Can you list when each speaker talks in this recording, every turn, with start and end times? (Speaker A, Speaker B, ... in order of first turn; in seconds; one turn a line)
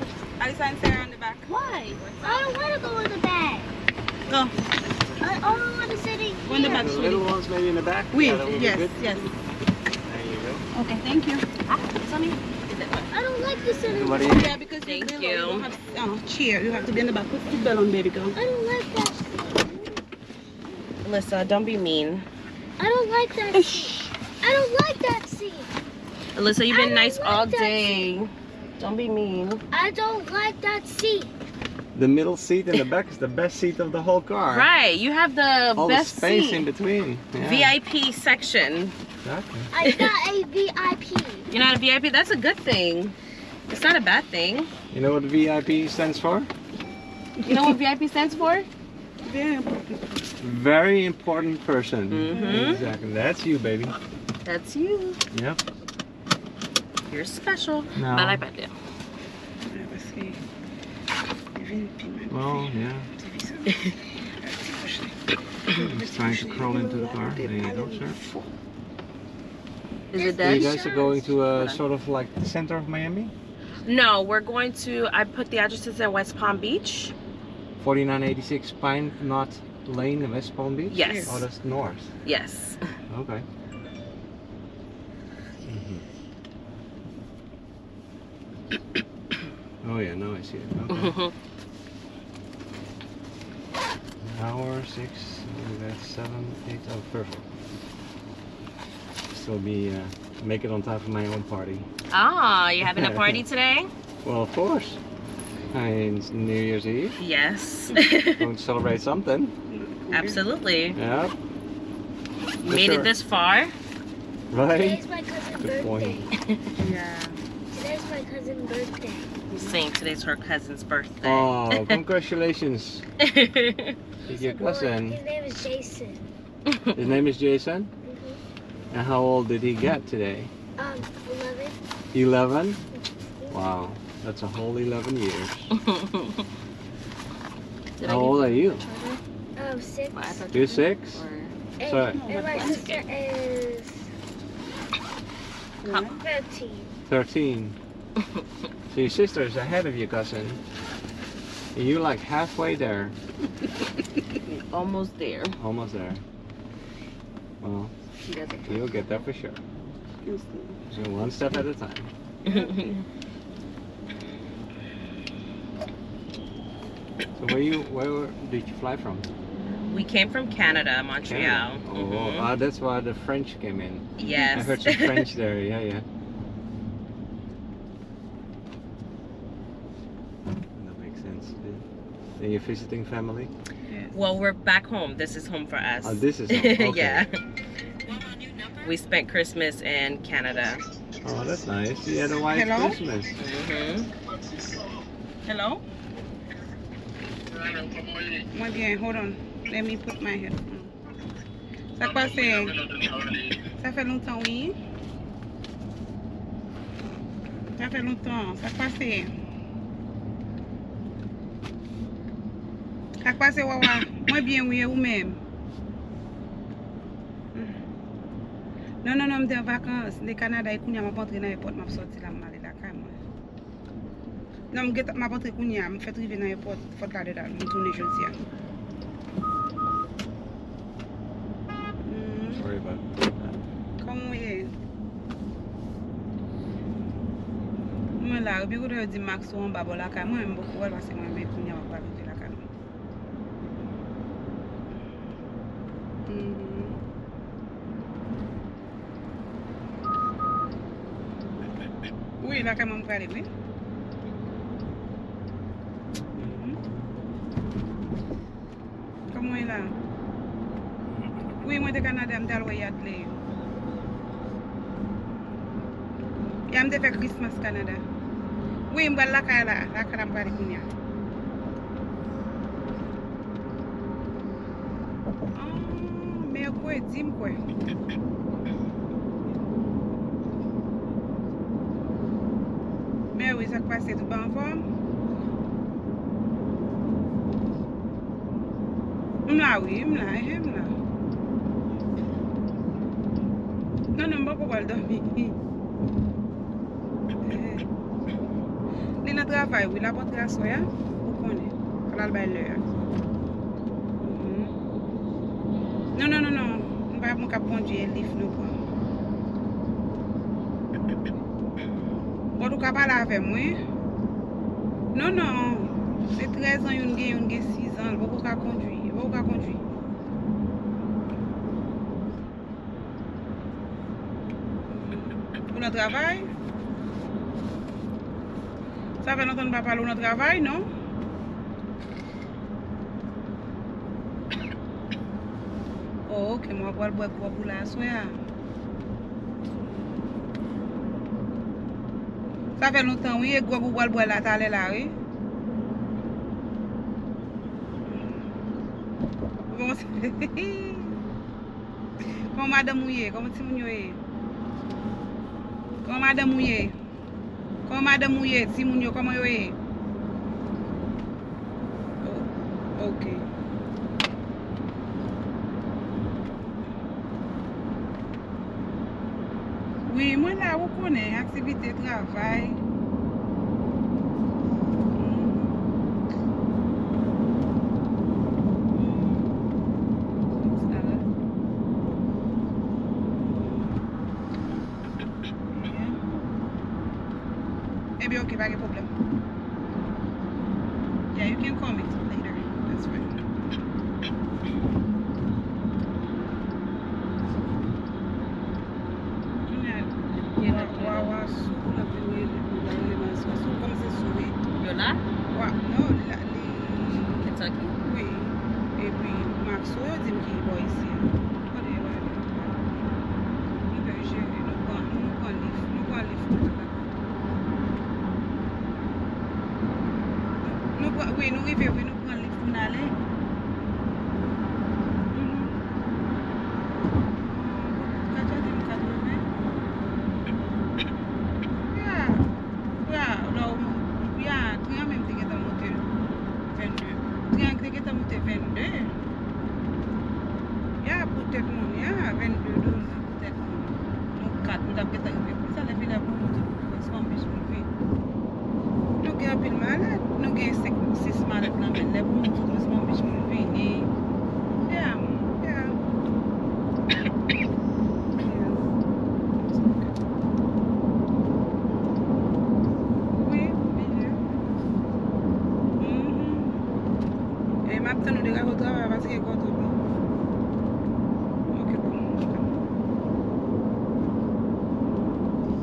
Speaker A: 0.4-2.4
Speaker B: 1.5-2.4
Speaker C: 2.2-3.7
Speaker A: 4.3-4.5
Speaker C: 5.2-7.2
Speaker A: 6.5-7.2
Speaker D: 6.5-9.2
Speaker A: 8.1-9.3
Speaker D: 10.0-10.7
Speaker A: 10.7-11.5
Speaker B: 11.7-13.1
Speaker C: 13.1-14.5
Speaker D: 13.9-14.6
Speaker A: 14.2-18.4
Speaker B: 14.8-15.7
Speaker C: 18.4-20.0
Speaker B: 21.0-22.3
Speaker C: 22.8-25.7
Speaker A: 23.5-24.1
Speaker B: 26.4-29.6
Speaker C: 26.7-28.2
Speaker C: 29.7-31.3
Speaker D: 31.9-34.7
Speaker B: 34.5-36.7
Speaker D: 35.8-37.7
Speaker B: 37.4-39.0
Speaker D: 39.2-39.7
Speaker C: 39.7-41.5
Speaker B: 39.8-40.1
Speaker B: 41.5-43.2
Speaker B: 43.7-44.7
Speaker D: 44.9-46.5
Speaker A: 47.4-47.8
Speaker B: 47.5-48.7
Speaker A: 49.2-50.0
Speaker D: 50.4-54.0
Speaker B: 52.1-52.9
Speaker A: 52.3-52.9
Speaker B: 54.5-55.2
Speaker D: 55.3-55.6
Speaker B: 57.1-58.7
Speaker D: 58.0-58.5
Speaker A: 59.7-60.4
Speaker A: 61.5-65.2
Speaker D: 62.3-63.1
Speaker A: 65.7-68.5
Speaker D: 65.8-68.2
Speaker B: 70.1-70.8
Speaker C: 70.2-71.3
Speaker D: 70.4-73.3
Speaker B: 71.5-71.8
Speaker B: 73.9-77.1
Speaker D: 77.8-82.1
Speaker B: 80.9-81.4
Speaker A: 81.0-81.4
Speaker B: 82.2-82.9
Speaker D: 83.1-83.5
Speaker D: 85.6-86.0
Speaker D: 89.8-91.2
Speaker B: 90.9-91.3
Speaker D: 94.2-97.5
Speaker D: 99.3-101.9
Speaker B: 102.1-103.9
Speaker D: 102.8-103.4
Speaker D: 104.2-105.0
Speaker D: 105.7-107.2
Speaker B: 107.2-108.5
Speaker D: 108.4-109.5
Speaker A: 109.7-110.4
Speaker B: 110.1-111.0
Speaker D: 111.0-111.3
Speaker D: 112.6-113.1
Speaker B: 112.7-113.7
Speaker D: 114.5-115.0
Speaker C: 114.8-116.3
Speaker D: 115.6-116.3
Speaker B: 116.3-116.6
Speaker A: 116.8-117.4
Speaker C: 117.7-119.3
Speaker A: 119.5-119.8
Speaker B: 119.5-122.0
Speaker D: 121.2-123.1
Speaker B: 123.2-124.0
Speaker D: 124.3-125.2
Speaker C: 124.3-126.2
Speaker B: 126.7-127.0
Speaker D: 126.9-127.9
Speaker C: 128.0-128.4
Speaker D: 128.9-130.5
Speaker C: 130.8-131.8
Speaker D: 132.1-132.8
Speaker C: 133.4-133.9
Speaker D: 133.5-135.7
Speaker B: 135.7-136.4
Speaker B: 138.0-139.2
Speaker D: 138.0-138.8
Speaker C: 139.6-140.4
Speaker B: 140.1-141.5
Speaker D: 140.5-141.2
Speaker C: 141.8-144.1
Speaker D: 141.8-142.2
Speaker A: 142.1-142.9
Speaker B: 142.5-143.0
Speaker A: 145.8-146.2
Speaker B: 145.9-146.2
Speaker C: 146.2-146.9
Speaker D: 147.1-147.8
Speaker D: 148.9-150.6
Speaker D: 151.7-153.2
Speaker B: 154.7-155.6
Speaker D: 155.6-156.2
Speaker D: 157.6-157.9
Speaker B: 158.3-159.0
Speaker D: 158.7-159.6
Speaker A: 160.2-160.8
Speaker D: 160.9-162.1
Speaker A: 162.4-163.0
Speaker B: 162.4-163.1
Speaker D: 167.4-169.3
Speaker B: 169.9-172.5
Speaker D: 171.2-176.1
Speaker B: 174.2-175.3
Speaker A: 174.2-174.7
Speaker D: 180.8-181.8
Speaker D: 182.4-183.5
Speaker A: 183.9-184.2
Speaker B: 184.1-187.4
Speaker D: 186.0-187.3
Speaker B: 188.1-190.8
Speaker D: 191.2-193.4
Speaker A: 192.4-193.0
Speaker B: 193.4-194.1
Speaker A: 195.5-195.8
Speaker A: 198.3-200.9
Speaker A: 202.0-202.9
Speaker A: 203.8-204.8
Speaker A: 207.8-209.3
Speaker A: 213.2-215.4
Speaker A: 219.0-223.2
Speaker A: 224.7-228.4
Speaker A: 232.0-232.7
Speaker D: 232.6-233.7
Speaker A: 234.0-234.7
Speaker A: 238.2-242.6
Speaker A: 246.3-247.0
Speaker A: 252.4-253.5
Speaker A: 256.4-256.8
Speaker A: 259.3-259.9
Speaker A: 261.6-263.4
Speaker A: 266.7-268.0
Speaker A: 268.9-270.9
Speaker A: 275.6-277.6
Speaker A: 283.3-284.8
Speaker A: 289.5-290.9
Speaker A: 294.2-295.6
Speaker A: 297.4-297.9
Speaker A: 299.2-302.8
Speaker A: 304.2-304.8
Speaker A: 306.1-308.8
Speaker A: 312.6-313.8
Speaker A: 315.1-319.8
Speaker A: 324.9-326.5
Speaker A: 329.2-330.9
Speaker A: 336.3-338.4
Speaker A: 342.8-345.1
Speaker A: 349.7-351.2
Speaker A: 352.5-354.2
Speaker A: 356.0-356.9
Speaker A: 357.9-359.8
Speaker A: 362.2-363.5
Speaker A: 370.1-372.8
Speaker A: 375.2-375.8
Speaker A: 378.9-379.5
Speaker A: 380.6-381.3
Speaker A: 383.3-384.0
Speaker A: 385.7-386.2
Speaker A: 388.2-389.1
Speaker A: 391.3-393.4
Speaker A: 399.7-404.6
Speaker B: 400.4-401.5
Speaker B: 404.8-405.2
Speaker A: 405.5-413.2
Speaker B: 407.4-407.9
Speaker A: 413.9-417.1
Speaker A: 420.6-423.1
Speaker A: 425.3-425.8
Speaker A: 427.5-429.4
Speaker A: 431.8-432.5
Speaker A: 433.0-436.1
Speaker A: 436.7-439.1
Speaker A: 441.0-447.9
Speaker A: 449.2-454.1
Speaker A: 454.9-456.0
Speaker A: 458.4-458.9
Speaker A: 459.5-460.2
Speaker A: 463.4-464.4
Speaker A: 466.0-466.9
Speaker A: 467.9-470.0
Speaker A: 471.7-472.7